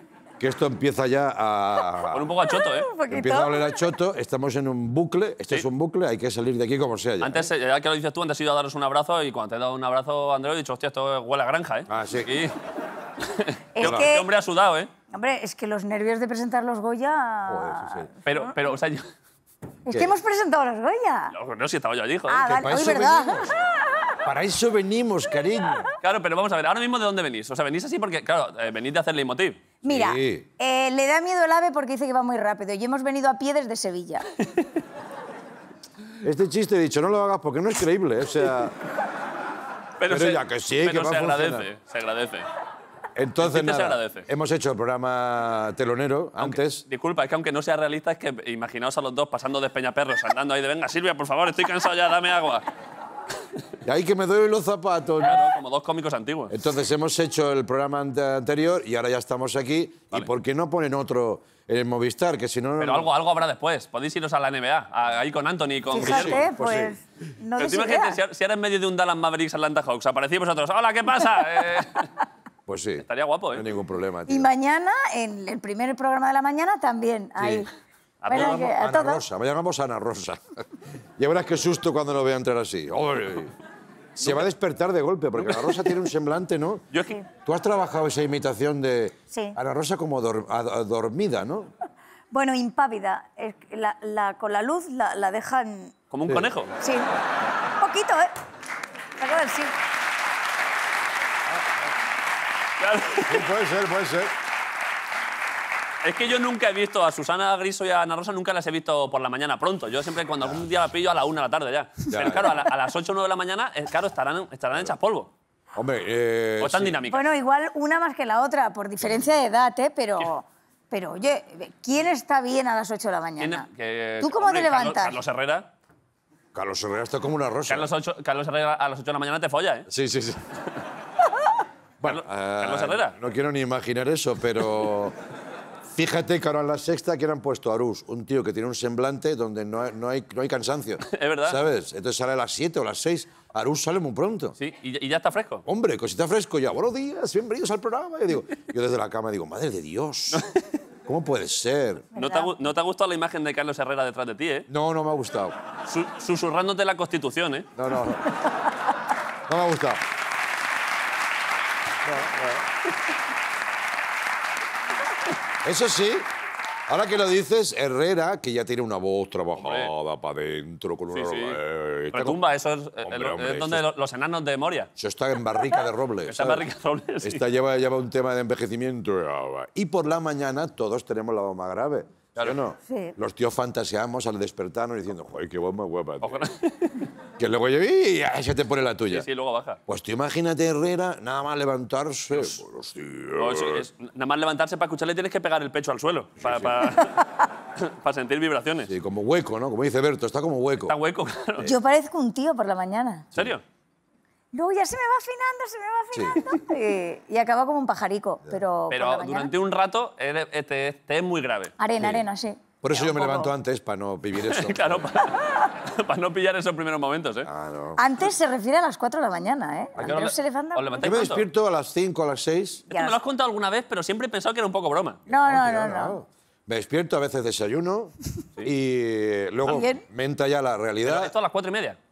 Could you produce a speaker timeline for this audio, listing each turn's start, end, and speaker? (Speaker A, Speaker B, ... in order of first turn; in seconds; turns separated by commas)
Speaker A: 0.4-2.3, Speaker B: 2.1-2.9, Speaker C: 2.5-3.8, Speaker A: 3.1-7.5, Speaker B: 7.2-12.5, Speaker A: 11.9-12.3, Speaker B: 13.2-14.9, Speaker C: 13.7-14.3, Speaker A: 13.8-14.1, Speaker C: 15.1-18.4, Speaker A: 17.4-18.1, Speaker B: 18.2-19.1, Speaker C: 19.9-21.3, Speaker A: 19.9-20.1, Speaker B: 21.3-22.4, Speaker C: 22.3-23.6, Speaker A: 22.4-23.5, Speaker A: 24.2-25.9, Speaker B: 26.0-29.6, Speaker C: 29.8-34.2, Speaker A: 29.8-30.5, Speaker A: 36.2-38.8, Speaker B: 40.0-42.5, Speaker A: 40.1-41.7, Speaker A: 43.1-46.8, Speaker B: 43.4-44.2, Speaker B: 46.4-52.6, Speaker A: 53.8-55.4, Speaker B: 55.2-56.5, Speaker A: 56.5-63.1, Speaker B: 62.8-66.4, Speaker C: 65.9-68.2, Speaker A: 66.0-67.0, Speaker B: 67.6-72.1, Speaker A: 72.7-74.5, Speaker B: 73.0-73.6, Speaker C: 74.3-77.7, Speaker A: 77.4-77.7, Speaker B: 78.2-78.6, Speaker C: 78.3-79.2, Speaker A: 78.3-80.6, Speaker A: 81.2-83.5, Speaker B: 84.2-84.5, Speaker A: 84.2-91.7, Speaker B: 85.4-86.0, Speaker B: 86.9-87.2, Speaker C: 89.3-89.6, Speaker C: 92.3-95.9, Speaker B: 96.1-96.7, Speaker C: 96.8-97.1, Speaker C: 97.8-98.3, Speaker C: 99.2-99.7, Speaker B: 102.8-103.5, Speaker A: 103.3-104.3, Speaker B: 106.0-115.3, Speaker A: 112.1-112.7, Speaker A: 115.7-117.0, Speaker B: 116.6-117.3, Speaker C: 117.1-123.7, Speaker B: 123.4-125.7, Speaker C: 124.2-125.2, Speaker A: 126.5-127.9, Speaker B: 127.7-129.9, Speaker A: 129.9-130.5, Speaker A: 132.0-135.1, Speaker B: 132.0-133.2, Speaker A: 135.9-144.5, Speaker B: 141.1-141.6, Speaker B: 144.6-145.6, Speaker A: 145.7-150.4, Speaker B: 150.3-150.6, Speaker A: 151.1-152.1, Speaker C: 152.1-152.5, Speaker B: 152.1-154.7, Speaker A: 154.7-155.6, Speaker B: 155.9-157.7, Speaker A: 157.8-158.3, Speaker A: 159.5-160.0, Speaker A: 162.0-162.6, Speaker A: 165.6-166.3, Speaker A: 166.9-172.4, Speaker B: 169.6-169.9, Speaker B: 171.1-171.6, Speaker B: 172.1-174.9, Speaker A: 173.0-173.8, Speaker A: 175.0-176.6, Speaker B: 176.2-177.4, Speaker A: 177.2-186.4, Speaker C: 182.8-183.1, Speaker B: 186.2-187.1, Speaker A: 187.4-189.2, Speaker B: 189.0-189.8, Speaker A: 189.9-193.8, Speaker B: 192.3-192.6, Speaker B: 193.4-198.9, Speaker A: 196.4-196.9, Speaker A: 198.8-200.9, Speaker B: 200.8-201.7, Speaker C: 201.6-203.2, Speaker B: 203.3-203.6, Speaker C: 204.5-209.5, Speaker A: 206.1-206.4, Speaker B: 208.9-211.7, Speaker C: 211.8-213.5, Speaker A: 212.0-212.2, Speaker A: 212.8-215.2, Speaker B: 214.4-217.5, Speaker A: 217.4-218.0, Speaker C: 218.0-221.1, Speaker A: 219.9-220.2, Speaker B: 220.0-221.5, Speaker A: 221.0-222.9, Speaker B: 222.9-225.2, Speaker C: 222.9-223.2, Speaker C: 225.3-226.2, Speaker A: 225.3-231.3, Speaker C: 229.7-230.0, Speaker B: 231.0-232.0